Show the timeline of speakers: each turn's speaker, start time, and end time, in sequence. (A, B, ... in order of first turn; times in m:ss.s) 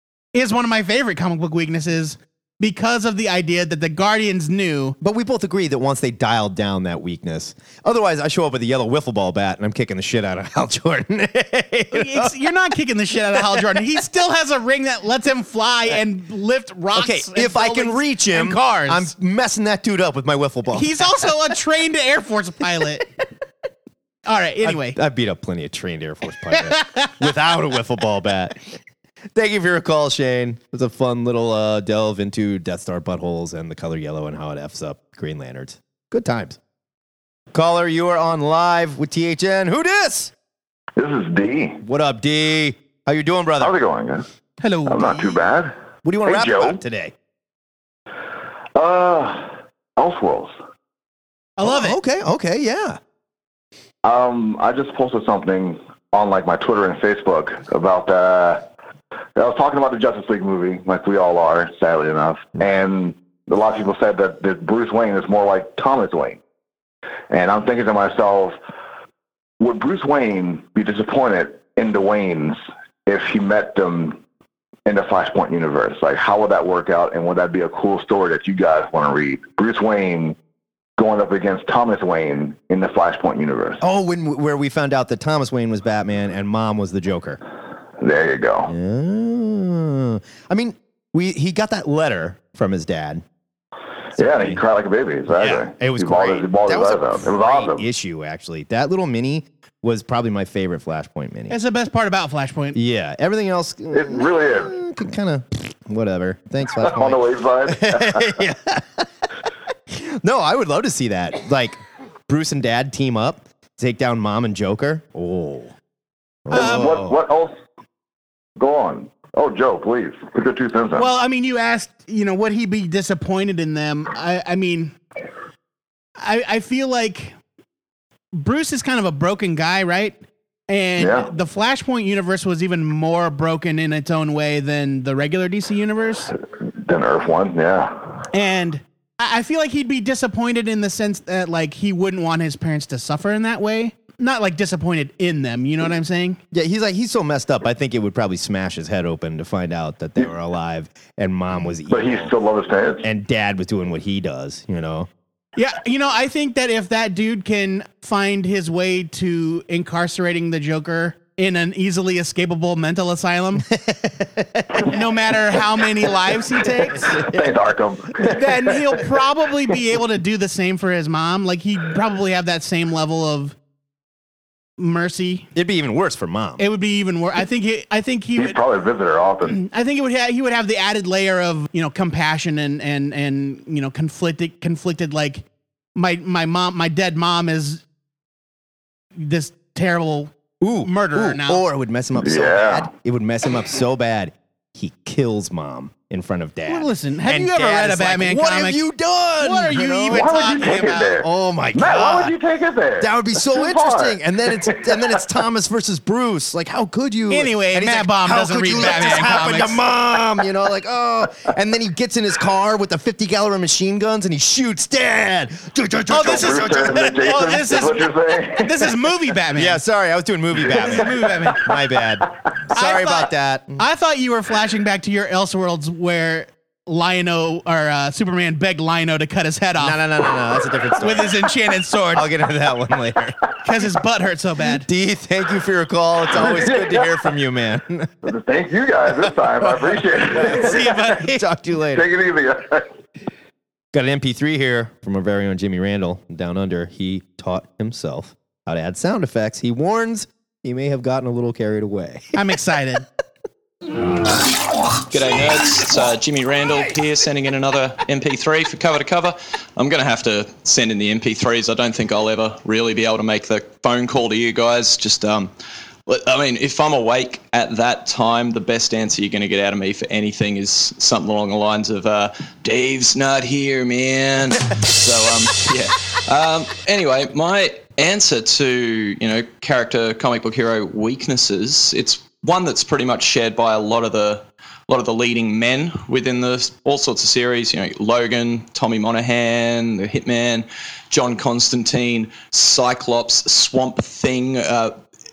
0:00.3-0:05.0 A
0:05.0-0:12.4 B
0:11.9-0:19.1 A
0:13.3-0:13.7 B
0:17.0-0:21.3 B
0:20.7-0:23.1 A
0:24.3-0:25.0 A
0:24.6-0:28.6 B
0:26.6-0:27.1 A
0:29.3-0:36.6 B
0:37.5-0:40.3 B
0:41.0-0:41.8 C
0:41.8-0:43.7 B
0:43.6-0:44.2 C
0:44.6-0:45.4 A
0:44.9-0:45.7 C
0:46.0-0:47.1 B
0:46.3-0:46.8 C
0:48.8-0:50.6 C
0:51.6-0:52.0 A
0:51.6-0:53.0 B
0:54.0-0:58.6 C
0:59.4-1:06.4 C
1:07.3-1:08.6 C
1:09.6-1:14.2 C
1:14.9-1:20.4 C
1:21.0-1:23.8 C
1:23.8-1:27.4 B
1:28.0-1:28.7 C
1:28.7-1:33.2 B
1:34.2-1:34.6 B
1:34.2-1:37.8 C
1:35.3-1:41.6 B
1:41.5-1:42.8 A
1:42.7-1:49.1 B
1:43.9-1:44.7 C
1:46.8-1:48.4 C
1:49.9-1:55.7 B
1:56.5-1:57.2 B
1:56.5-1:57.6 C
1:56.5-1:56.9 A
1:58.6-2:01.1 C
2:01.0-2:05.0 A
2:06.2-2:07.3 A
2:08.3-2:10.2 A
2:10.7-2:16.3 A
2:11.0-2:11.3 C
2:16.6-2:18.2 C
2:18.3-2:26.4 A
2:26.5-2:32.3 B
2:31.9-2:33.1 C
2:33.0-2:35.1 B
2:35.6-2:43.7 A
2:43.9-2:44.6 B
2:44.8-2:47.2 A
2:47.2-2:48.5 C
2:48.2-2:53.6 A
2:54.8-2:55.5 A
2:55.6-2:56.6 B
2:56.6-2:58.6 A
2:58.4-2:59.6 C
2:59.5-3:05.4 A
3:06.0-3:07.8 A
3:09.2-3:10.3 A
3:10.6-3:22.4 B
3:10.8-3:11.6 A
3:12.2-3:12.9 C
3:16.7-3:18.8 A
3:19.4-3:21.2 A
3:20.1-3:25.0 C
3:23.0-3:37.6 B
3:27.3-3:29.8 A
3:36.1-3:39.8 A
3:36.2-3:39.0 C
3:39.6-3:43.8 B
3:40.6-3:41.7 A
3:42.7-3:50.0 A
3:49.8-3:51.5 B
3:51.0-3:52.3 A
3:52.1-3:53.4 B
3:53.6-3:54.9 A
3:54.8-3:58.2 B
3:56.4-3:57.1 C
3:58.2-4:01.0 C
3:59.6-4:02.1 B
4:00.4-4:01.4 A
4:01.9-4:02.9 C
4:03.9-4:12.3 B
4:12.3-4:13.0 A
4:15.1-4:25.5 D
4:26.1-4:55.0 D